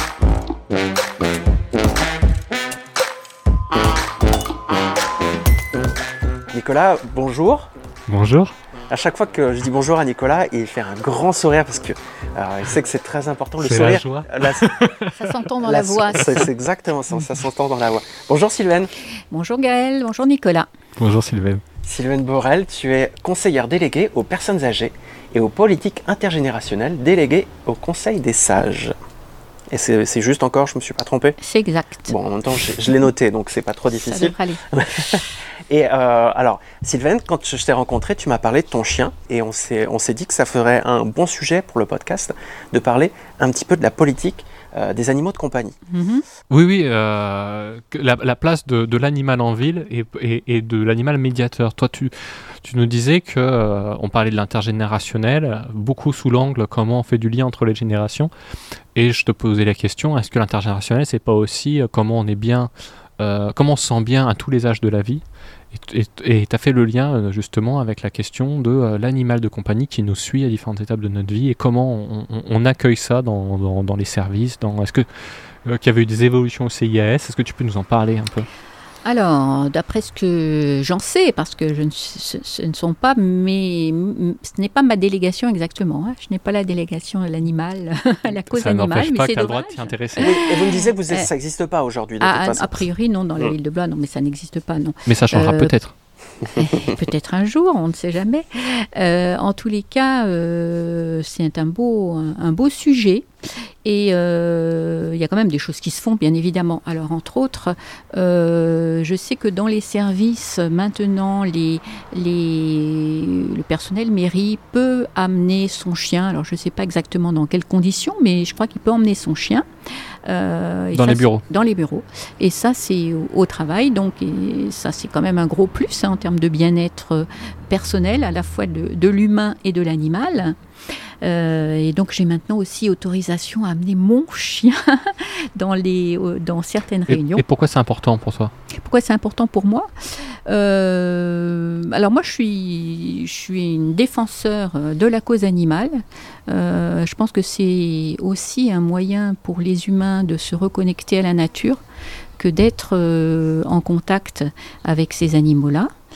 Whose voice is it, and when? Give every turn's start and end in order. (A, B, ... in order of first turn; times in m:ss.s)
0:06.5-0:07.7 A
0:08.1-0:08.5 B
0:08.9-0:14.7 A
0:13.6-0:15.4 B
0:15.1-0:16.5 C
0:15.6-0:18.9 A
0:16.2-0:16.4 B
0:19.3-0:20.7 C
0:21.0-0:21.6 B
0:21.8-0:28.9 A
0:29.7-0:31.4 A
0:31.4-0:32.1 C
0:32.1-0:45.7 A
0:33.9-0:35.2 C
0:45.9-0:46.2 C
0:46.5-0:58.3 B
0:58.9-1:15.1 B
1:15.6-1:18.5 B
1:19.0-1:31.3 C
1:28.5-1:30.4 B
1:30.2-1:32.8 A
1:32.2-1:35.7 C
1:35.0-1:35.9 B
1:36.6-1:43.3 C
1:43.8-1:59.6 C
2:00.2-2:10.6 C
2:00.9-2:01.4 B
2:11.2-2:17.4 C
2:17.1-2:18.5 B
2:18.7-2:31.8 C
2:32.4-2:35.9 C